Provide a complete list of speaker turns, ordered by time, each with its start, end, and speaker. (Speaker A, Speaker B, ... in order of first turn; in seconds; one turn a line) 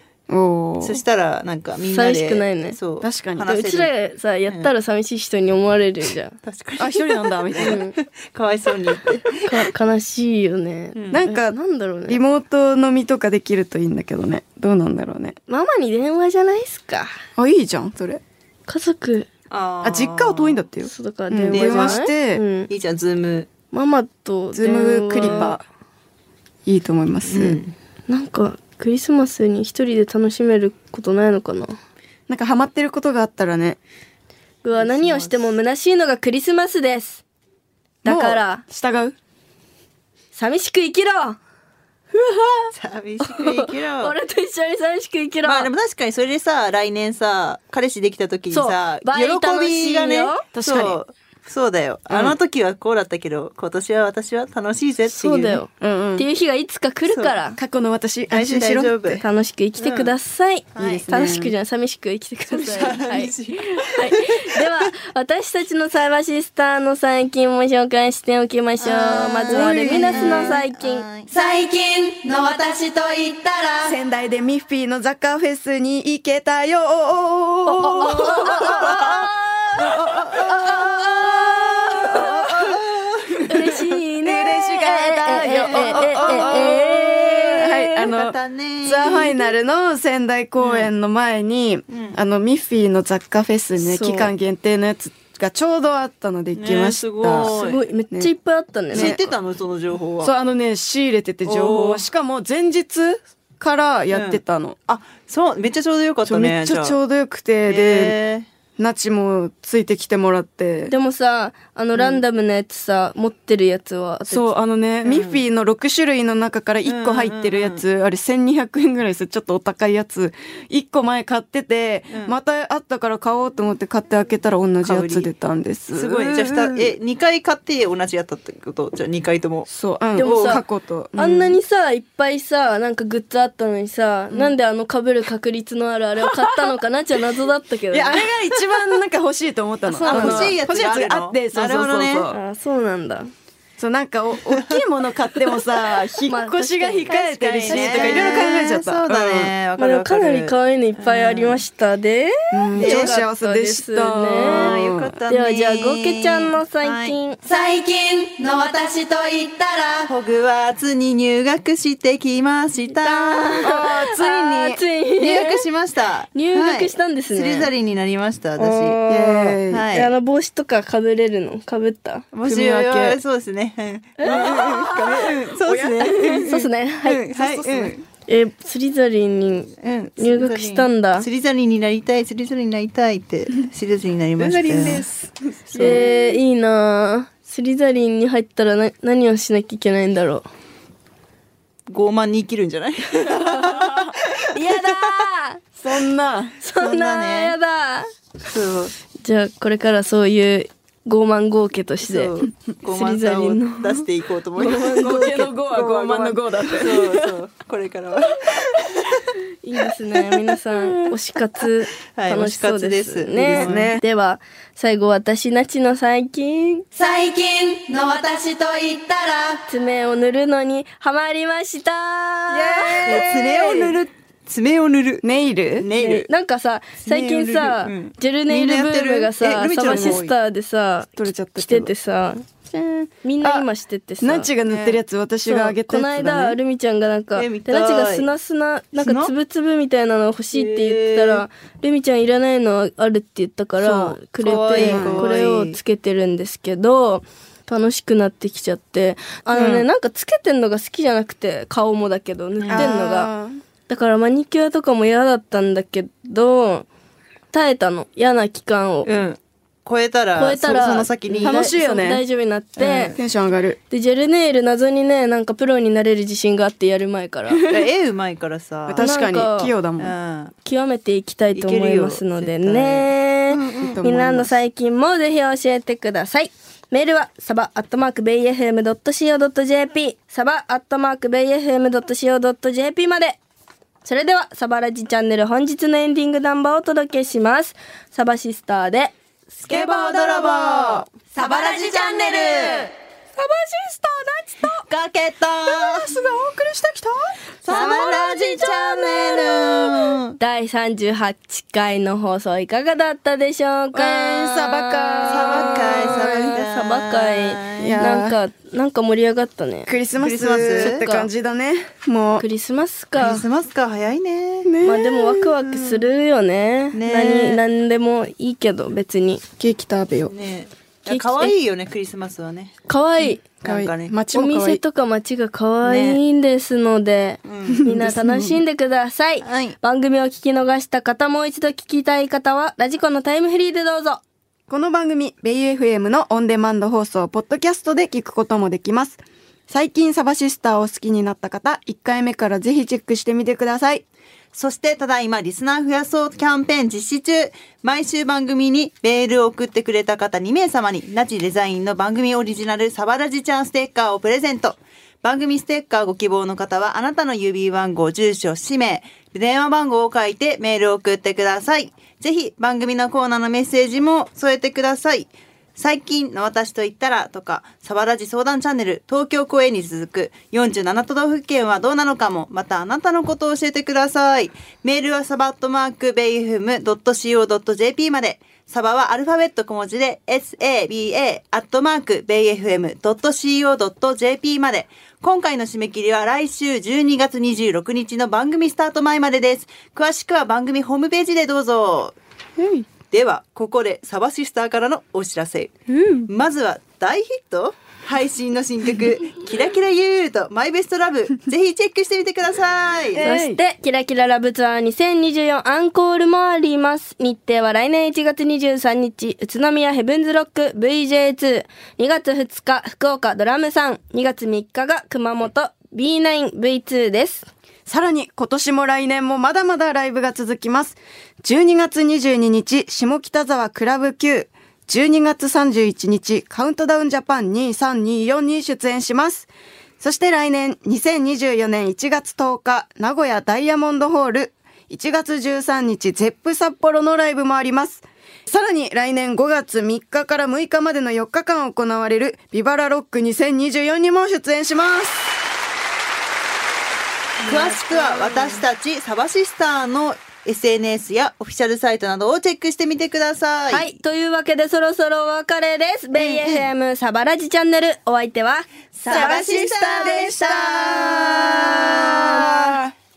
Speaker A: 0.3-1.0
Speaker B: 0.8-3.9
Speaker C: 1.9-2.8
Speaker A: 3.0-3.5
Speaker C: 3.5-6.3
Speaker B: 6.4-9.4
Speaker A: 6.8-7.8
Speaker C: 7.6-7.9
Speaker C: 9.4-12.2
Speaker B: 10.9-11.2
Speaker A: 11.1-11.6
Speaker A: 12.1-15.3
Speaker C: 15.5-17.1
Speaker A: 17.4-18.2
Speaker C: 18.7-19.3
Speaker B: 19.5-20.6
Speaker A: 19.8-22.4
Speaker C: 20.8-22.7
Speaker B: 21.5-22.0
Speaker B: 22.7-23.5
Speaker C: 23.7-25.6
Speaker A: 24.5-25.6
Speaker B: 25.2-25.5
Speaker A: 26.6-27.6
Speaker B: 27.3-27.7
Speaker C: 28.1-31.8
Speaker A: 32.3-33.8
Speaker C: 34.6-37.2
Speaker B: 34.7-35.5
Speaker C: 38.0-38.6
Speaker A: 38.0-39.1
Speaker C: 40.3-41.4
Speaker B: 42.7-44.1
Speaker C: 43.2-45.7
Speaker B: 45.4-55.6
Speaker C: 48.5-50.4
Speaker A: 50.5-51.0
Speaker A: 52.1-52.4
Speaker C: 55.1-57.6
Speaker A: 55.8-56.2
Speaker B: 57.1-57.4
Speaker A: 57.6-58.9
Speaker B: 58.3-59.2
Speaker C: 59.2-71.0
Speaker B: 59.8-60.1
Speaker B: 60.7-61.0
Speaker A: 60.8-61.5
Speaker B: 62.5-64.9
Speaker B: 68.8-71.3
Speaker A: 69.5-70.5
Speaker D: 71.3-73.8
Speaker A: 73.8-82.8
Speaker C: 77.7-79.3
Speaker B: 77.9-84.0
Speaker C: 80.3-82.4
Speaker C: 83.5-88.1
Speaker A: 84.2-97.5
Speaker B: 85.5-86.9
Speaker B: 88.0-89.4
Speaker B: 90.6-90.9
Speaker B: 91.9-92.2
Speaker C: 93.8-94.3
Speaker B: 96.5-97.8
Speaker C: 97.3-99.1
Speaker A: 98.9-99.3
Speaker B: 98.9-100.3
Speaker A: 100.2-104.8
Speaker B: 101.4-102.0
Speaker B: 104.1-106.9
Speaker A: 106.2-108.2
Speaker B: 107.7-108.5
Speaker A: 108.8-110.9
Speaker C: 110.9-114.5
Speaker B: 112.0-112.2
Speaker A: 114.3-126.9
Speaker B: 115.0-115.4
Speaker B: 116.8-117.8
Speaker B: 124.8-125.3
Speaker B: 125.9-130.6
Speaker A: 129.7-131.6
Speaker C: 130.2-130.6
Speaker C: 131.2-138.2
Speaker A: 136.2-136.7
Speaker A: 137.9-142.4
Speaker C: 139.8-140.6
Speaker B: 140.1-142.3
Speaker C: 142.3-143.3
Speaker A: 143.8-149.5
Speaker B: 144.5-144.8
Speaker C: 146.3-148.5
Speaker B: 147.2-151.6
Speaker C: 149.8-154.7
Speaker A: 152.5-155.1
Speaker B: 152.8-153.1
Speaker B: 154.3-157.2
Speaker C: 155.3-157.4
Speaker D: 157.4-160.1
Speaker B: 160.0-163.6
Speaker C: 162.9-165.6
Speaker A: 163.6-164.8
Speaker B: 165.2-169.0
Speaker C: 166.3-167.7
Speaker C: 168.6-172.3
Speaker A: 169.1-169.9
Speaker B: 169.7-170.1
Speaker B: 172.3-178.0
Speaker A: 172.4-173.2
Speaker C: 174.2-175.1
Speaker A: 174.2-176.6
Speaker C: 176.0-177.2
Speaker A: 177.3-177.9
Speaker C: 178.3-181.2
Speaker B: 179.8-186.0
Speaker A: 184.4-186.2
Speaker C: 185.8-190.5
Speaker B: 191.9-195.2
Speaker C: 193.4-193.7
Speaker A: 193.7-194.1
Speaker C: 194.5-195.6
Speaker A: 195.8-196.6
Speaker C: 196.6-198.1
Speaker B: 196.8-197.5
Speaker B: 198.5-198.9
Speaker C: 199.2-202.3
Speaker B: 202.0-209.3
Speaker C: 202.8-205.5
Speaker A: 204.8-207.3
Speaker C: 209.6-216.8
Speaker A: 210.7-211.1
Speaker B: 212.1-213.9
Speaker A: 213.5-214.0
Speaker D: 216.9-219.6
Speaker C: 219.7-223.3
Speaker A: 222.5-223.9
Speaker B: 223.0-226.3
Speaker A: 225.2-225.9
Speaker C: 226.0-232.5
Speaker B: 227.0-230.3
Speaker A: 229.8-230.3
Speaker A: 231.2-231.9
Speaker A: 232.7-233.7
Speaker C: 233.2-234.5
Speaker A: 234.2-236.6
Speaker B: 234.7-235.0
Speaker C: 235.4-253.3
Speaker B: 237.3-238.3
Speaker B: 239.0-239.3
Speaker B: 240.5-241.4
Speaker A: 243.8-245.3
Speaker B: 244.4-245.8
Speaker B: 249.5-249.9
Speaker B: 252.6-252.9
Speaker A: 252.7-253.6
Speaker C: 253.9-256.9
Speaker C: 257.5-259.1
Speaker B: 259.0-261.6
Speaker C: 260.4-263.1
Speaker A: 261.4-262.2
Speaker B: 262.8-263.2
Speaker A: 263.0-263.8
Speaker C: 263.9-267.6
Speaker B: 267.6-269.0
Speaker A: 268.9-270.1
Speaker C: 269.0-269.7
Speaker B: 270.0-270.5
Speaker C: 270.6-283.4
Speaker B: 271.5-274.0
Speaker A: 273.8-274.6
Speaker C: 284.0-289.1
Speaker B: 289.6-292.9
Speaker A: 289.7-291.0
Speaker C: 293.4-294.8
Speaker B: 294.8-296.1
Speaker A: 295.6-297.9
Speaker B: 297.6-300.4
Speaker C: 297.7-309.9
Speaker A: 303.9-306.6
Speaker B: 305.2-308.0
Speaker A: 307.8-308.4
Speaker A: 309.9-312.4
Speaker B: 310.2-311.0
Speaker C: 310.8-311.3
Speaker C: 312.4-313.4
Speaker B: 313.2-314.7
Speaker A: 314.6-316.1
Speaker C: 314.8-319.4
Speaker B: 316.9-317.6
Speaker A: 319.6-320.3
Speaker B: 320.3-322.8
Speaker C: 321.1-321.5
Speaker C: 322.9-323.4
Speaker B: 323.6-324.1
Speaker A: 323.6-324.8
Speaker C: 324.3-334.2
Speaker B: 325.8-326.2
Speaker B: 327.4-327.9
Speaker A: 327.7-328.6
Speaker B: 329.4-329.8
Speaker A: 334.7-344.0
Speaker B: 344.5-392.2
Speaker A: 392.6-392.9
Speaker B: 393.1-395.8
Speaker A: 395.9-396.3
Speaker B: 396.3-403.2
Speaker A: 403.1-403.6
Speaker C: 403.2-417.5
Speaker A: 417.9-445.4
Speaker B: 447.4-453.9
Speaker C: 447.4-448.6
Speaker A: 448.1-448.4
Speaker C: 453.7-460.2
Speaker A: 456.1-456.7
Speaker B: 458.9-462.8
Speaker A: 459.1-462.9